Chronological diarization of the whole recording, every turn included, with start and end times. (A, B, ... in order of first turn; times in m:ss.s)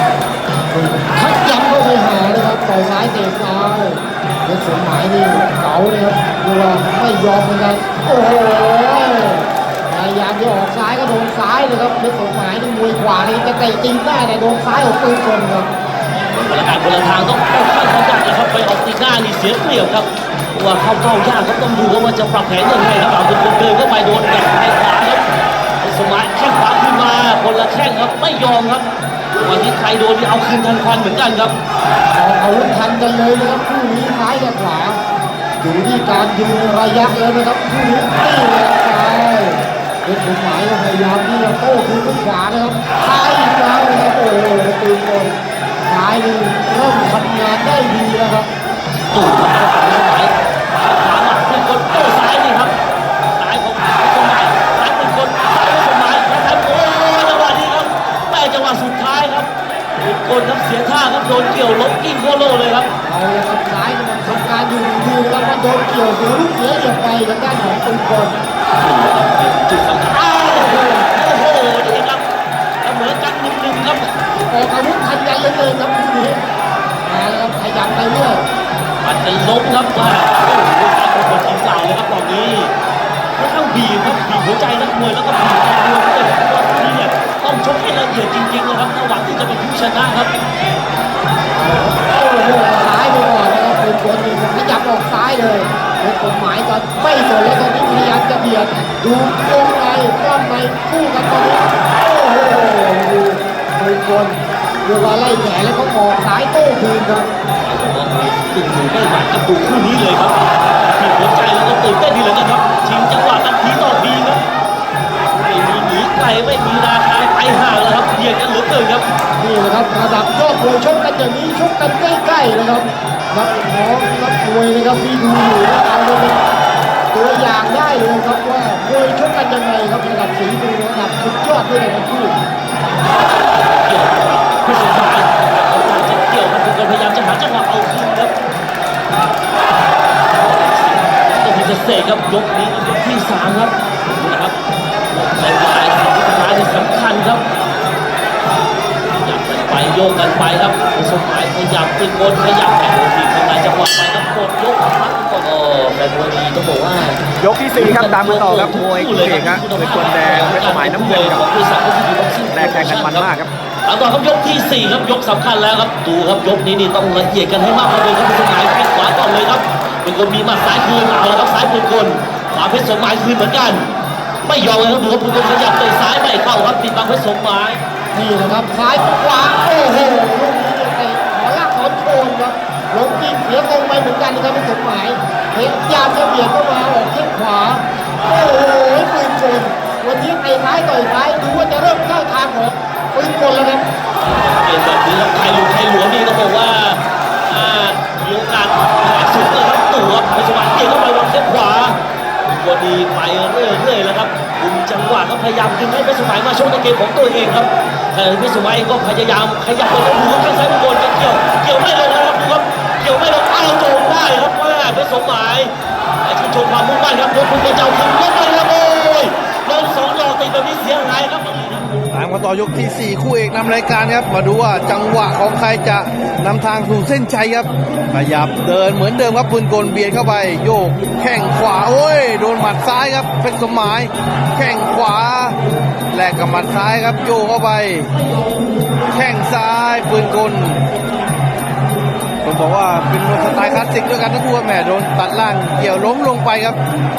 0:00.7-0:15.7 A
0:16.1-0:25.2 B
0:25.8-0:28.9 B
0:29.4-0:31.6 B
0:32.1-0:35.0 A
0:35.6-0:45.3 A
0:45.9-0:48.5 A
0:49.1-0:52.8 B
0:53.4-1:02.9 B
1:03.0-1:08.4 A
1:08.8-1:12.2 B
1:10.5-1:11.0 A
1:12.8-1:14.1 B
1:14.5-1:16.4 A
1:17.0-1:18.4 A
1:19.0-1:22.7 B
1:23.4-1:30.3 B
1:31.5-1:47.3 A
1:47.6-1:54.4 B
1:55.4-1:59.0 B
1:59.4-2:06.4 A
2:07.1-2:12.3 A
2:13.4-2:18.3 B
2:20.3-2:24.5 B
2:25.1-2:27.5 B
2:29.1-2:43.3 B
2:37.4-2:41.4 C
2:42.5-2:43.5 C
2:43.8-2:53.9 B
2:54.4-2:57.8 B
2:58.1-3:13.8 A
3:14.2-3:35.7 B
3:36.2-3:42.0 B
3:42.1-3:55.6 D
3:56.1-3:58.1 D
3:59.1-4:00.9 D
4:02.4-4:06.8 D